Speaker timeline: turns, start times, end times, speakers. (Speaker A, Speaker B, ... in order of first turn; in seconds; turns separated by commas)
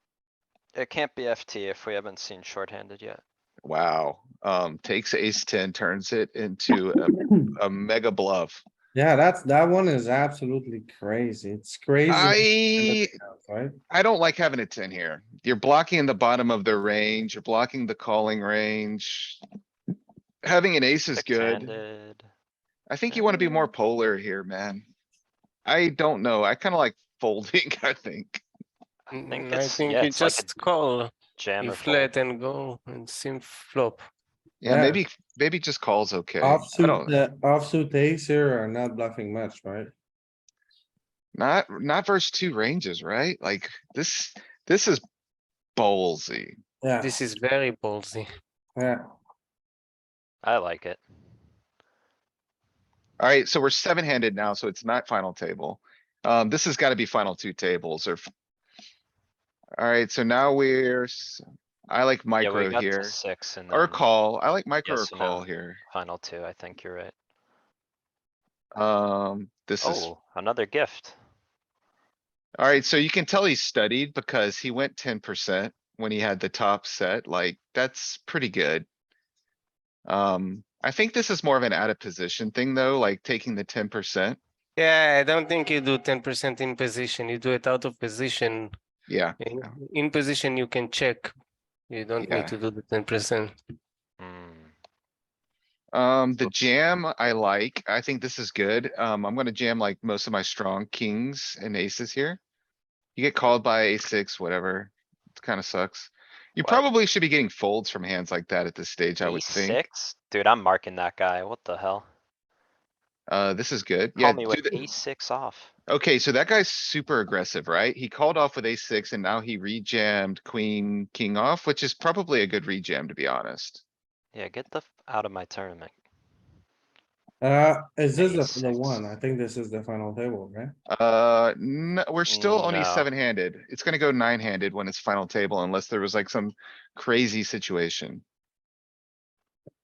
Speaker A: 0.8-3.2, Speaker B: 3.6-8.6, Speaker C: 8.9-13.8, Speaker B: 12.1-13.1, Speaker B: 13.9-19.4, Speaker B: 20.4-21.7, Speaker A: 21.1-22.3, Speaker B: 22.9-24.9, Speaker A: 23.1-23.5, Speaker B: 25.7-28.4, Speaker D: 29.1-34.1, Speaker A: 29.2-30.6, Speaker A: 31.4-32.1, Speaker B: 34.6-37.2, Speaker C: 34.7-35.0, Speaker C: 36.4-39.9, Speaker B: 41.4-45.0, Speaker B: 45.8-46.6, Speaker C: 46.8-47.1, Speaker D: 47.0-48.3, Speaker C: 48.8-49.1, Speaker A: 50.4-51.0, Speaker B: 53.2-58.3, Speaker B: 59.8-63.2, Speaker A: 62.4-64.0, Speaker B: 63.7-65.8, Speaker A: 64.8-67.1, Speaker B: 68.8-70.1, Speaker A: 69.8-71.2, Speaker B: 72.6-78.9, Speaker B: 80.1-84.4, Speaker D: 84.8-88.7, Speaker B: 89.1-89.8, Speaker D: 89.4-91.3, Speaker D: 91.9-93.5, Speaker B: 92.2-92.5, Speaker A: 94.2-94.7, Speaker B: 95.9-102.4, Speaker A: 96.4-96.7, Speaker B: 103.2-109.8, Speaker A: 109.2-112.1, Speaker B: 113.3-114.8, Speaker A: 114.2-115.7, Speaker B: 115.9-123.8, Speaker A: 124.3-126.0, Speaker C: 127.4-130.7, Speaker A: 128.2-129.1, Speaker B: 130.9-138.2, Speaker A: 132.3-133.1